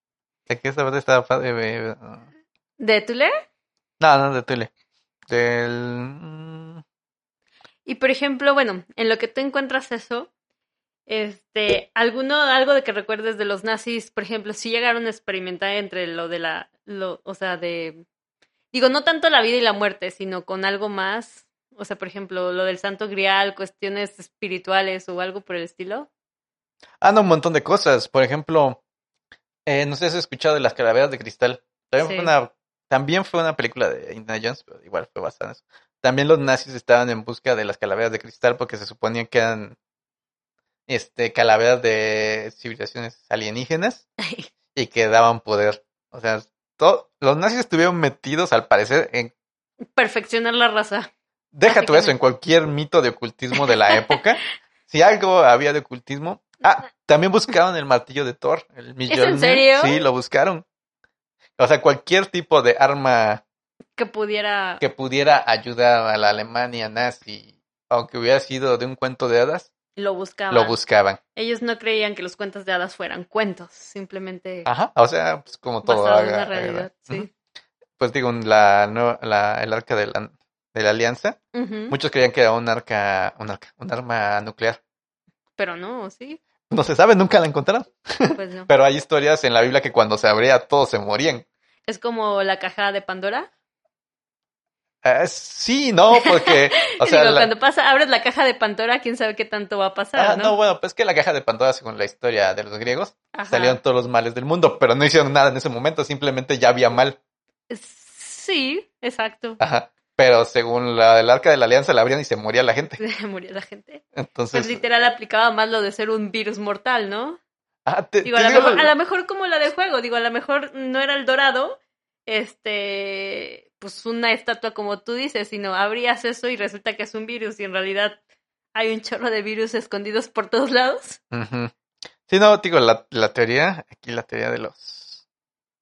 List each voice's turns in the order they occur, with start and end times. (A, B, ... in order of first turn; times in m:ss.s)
0:00.5-0:02.3 A
0:02.8-0:03.4 B
0:04.0-0:04.7 A
0:05.3-0:06.8 A
0:07.9-0:10.3 B
0:11.1-0:18.0 B
0:18.7-0:26.1 B
0:27.0-0:28.8 A
0:29.7-0:39.8 A
0:32.0-0:32.3 B
0:40.9-0:44.1 A
0:44.8-0:49.3 A
0:50.0-0:51.1 B
0:51.5-1:00.6 A
0:51.7-0:52.1 B
0:53.6-0:54.2 B
0:59.1-1:00.0 B
1:01.6-1:03.4 A
1:04.0-1:04.8 B
1:04.8-1:09.7 A
1:10.0-1:10.8 B
1:10.5-1:11.2 A
1:11.4-1:14.7 B
1:14.6-1:17.3 A
1:15.8-1:17.3 B
1:18.0-1:21.4 A
1:21.5-1:22.0 B
1:21.9-1:24.8 A
1:25.6-1:26.4 B
1:26.7-1:31.4 A
1:28.3-1:28.7 B
1:31.9-1:33.5 B
1:35.0-1:37.5 A
1:36.1-1:40.6 B
1:40.2-1:47.2 A
1:43.3-1:43.8 B
1:47.7-1:49.6 B
1:49.6-1:53.0 A
1:53.0-1:57.4 B
1:54.2-1:54.8 A
1:57.9-1:58.9 A
1:58.2-2:08.2 B
2:08.8-2:11.2 B
2:11.3-2:11.7 A
2:12.3-2:15.2 A